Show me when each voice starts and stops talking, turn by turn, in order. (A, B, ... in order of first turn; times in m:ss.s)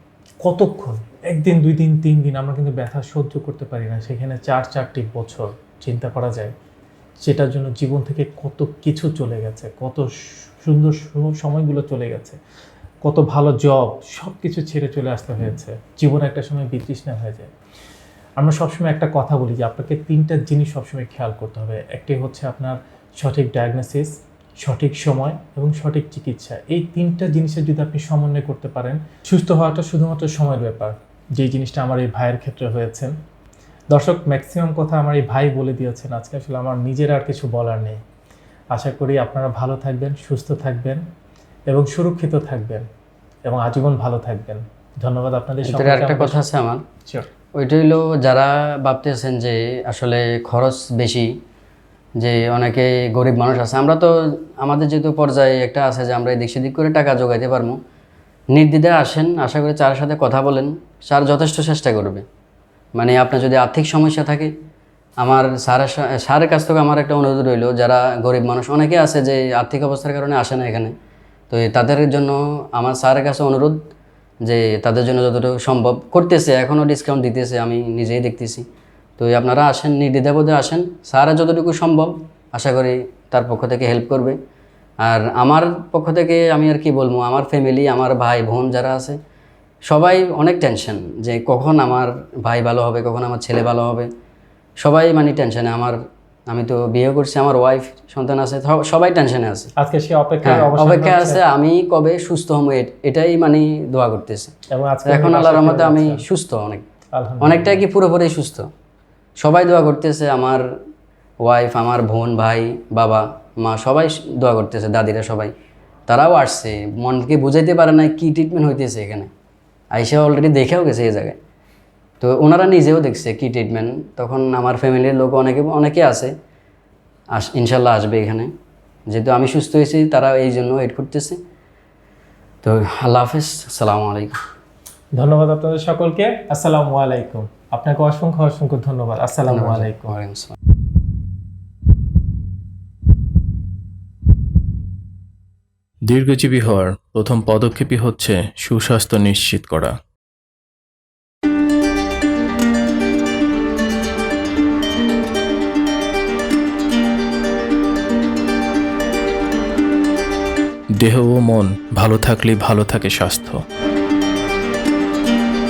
0:00.4-0:06.5 A
0:07.2-0:12.4 A
0:13.0-0:17.5 A
0:18.4-0:33.2 A
0:33.9-0:38.0 A
0:38.7-0:41.0 A
0:41.7-0:42.9 A
0:43.4-0:46.4 A
0:45.6-0:46.8 B
0:47.5-0:51.4 B
0:52.2-0:57.8 B
0:58.5-1:02.2 B
1:03.0-1:04.5 B
1:05.2-1:10.9 B
1:11.5-1:13.8 B
1:14.4-1:18.6 B
1:19.2-1:24.4 B
1:25.0-1:29.2 B
1:29.9-1:34.1 B
1:34.8-1:39.7 B
1:39.8-1:41.4 A
1:40.4-1:46.8 B
1:44.7-1:46.2 A
1:47.1-1:47.8 A
1:47.4-1:48.7 B
1:49.4-1:50.7 B
1:51.4-1:55.5 B
1:56.1-1:59.3 B
1:59.9-2:01.4 B
2:02.2-2:06.3 B
2:07.3-2:08.5 B
2:09.1-2:11.4 B
2:12.6-2:14.4 B
2:15.1-2:20.1 A
2:19.5-2:20.6 B
2:26.0-2:30.0 C
2:41.0-2:43.6 C